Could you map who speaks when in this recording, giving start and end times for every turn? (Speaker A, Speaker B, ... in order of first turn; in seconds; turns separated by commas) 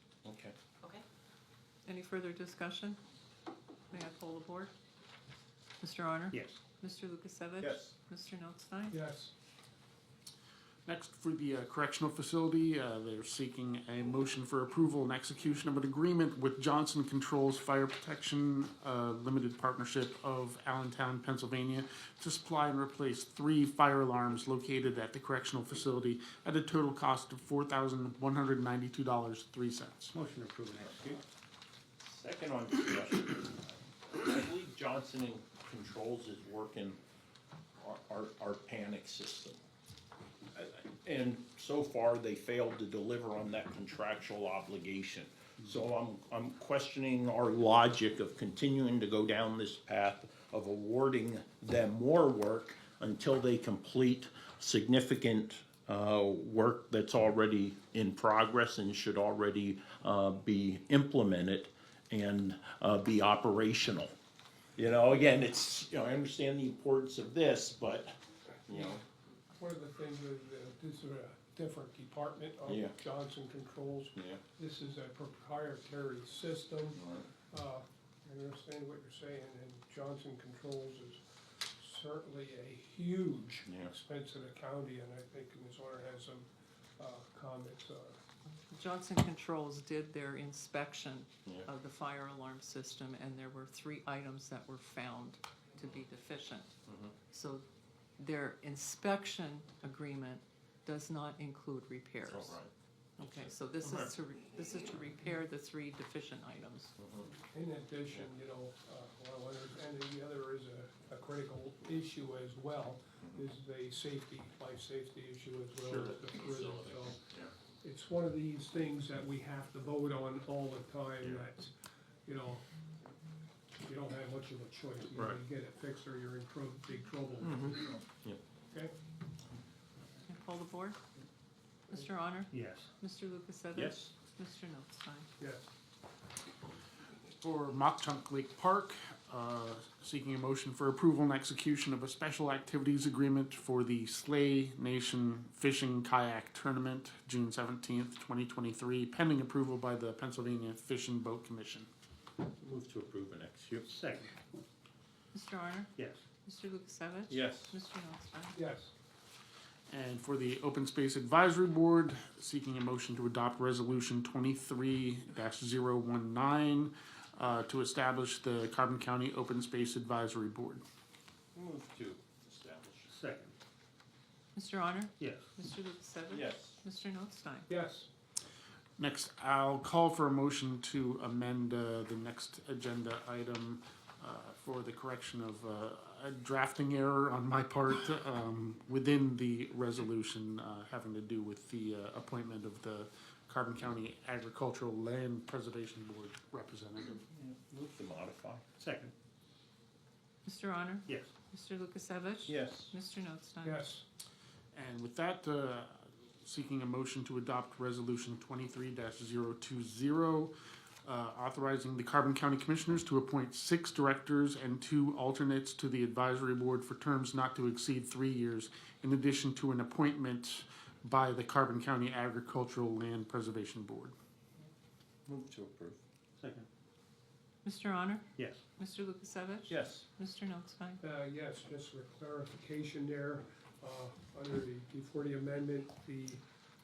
Speaker A: 0.2-0.5, Speaker B: 1.9-3.0, Speaker B: 3.9-4.7, Speaker B: 5.8-9.0, Speaker C: 6.3-6.6, Speaker A: 7.6-7.9, Speaker D: 8.9-9.3, Speaker E: 10.8-30.1, Speaker C: 30.1-31.2, Speaker A: 32.0-37.0, Speaker A: 37.8-39.6, Speaker A: 40.5-64.1, Speaker A: 64.8-68.1, Speaker A: 68.7-69.0, Speaker D: 68.7-69.0, Speaker D: 69.5-81.2, Speaker A: 72.7-73.0, Speaker D: 81.8-86.5, Speaker A: 83.7-83.9, Speaker D: 87.0-88.2, Speaker B: 88.7-96.7, Speaker A: 96.9-97.1, Speaker B: 97.3-97.6, Speaker B: 98.2-102.6, Speaker A: 102.2-102.7, Speaker B: 103.2-106.9, Speaker A: 103.2-104.1, Speaker A: 107.0-107.3, Speaker D: 107.4-117.2, Speaker A: 115.8-117.5, Speaker D: 117.8-121.7, Speaker D: 122.2-122.6, Speaker D: 123.8-128.0, Speaker A: 127.4-128.4, Speaker B: 130.3-131.0, Speaker B: 131.9-135.3, Speaker C: 132.5-132.9, Speaker A: 133.7-134.1, Speaker D: 135.4-135.7, Speaker E: 137.4-151.9, Speaker A: 152.6-153.9, Speaker C: 153.9-154.3, Speaker B: 155.3-155.9, Speaker C: 155.9-156.2, Speaker B: 156.4-158.6, Speaker A: 157.3-157.8, Speaker D: 158.5-158.9, Speaker E: 159.9-170.8, Speaker A: 171.5-173.1, Speaker C: 173.1-173.5, Speaker B: 174.5-177.7, Speaker C: 175.2-175.5, Speaker A: 176.3-176.8, Speaker D: 177.7-178.1, Speaker E: 179.0-197.2, Speaker A: 197.2-198.6, Speaker C: 198.8-199.1, Speaker B: 200.4-203.8, Speaker C: 201.1-201.3, Speaker A: 202.5-202.9, Speaker D: 203.6-204.0, Speaker E: 204.7-210.5, Speaker E: 211.0-224.1, Speaker A: 225.2-226.0, Speaker C: 226.4-226.7, Speaker B: 227.6-231.0, Speaker C: 228.3-228.6, Speaker A: 229.7-230.0, Speaker D: 231.0-236.4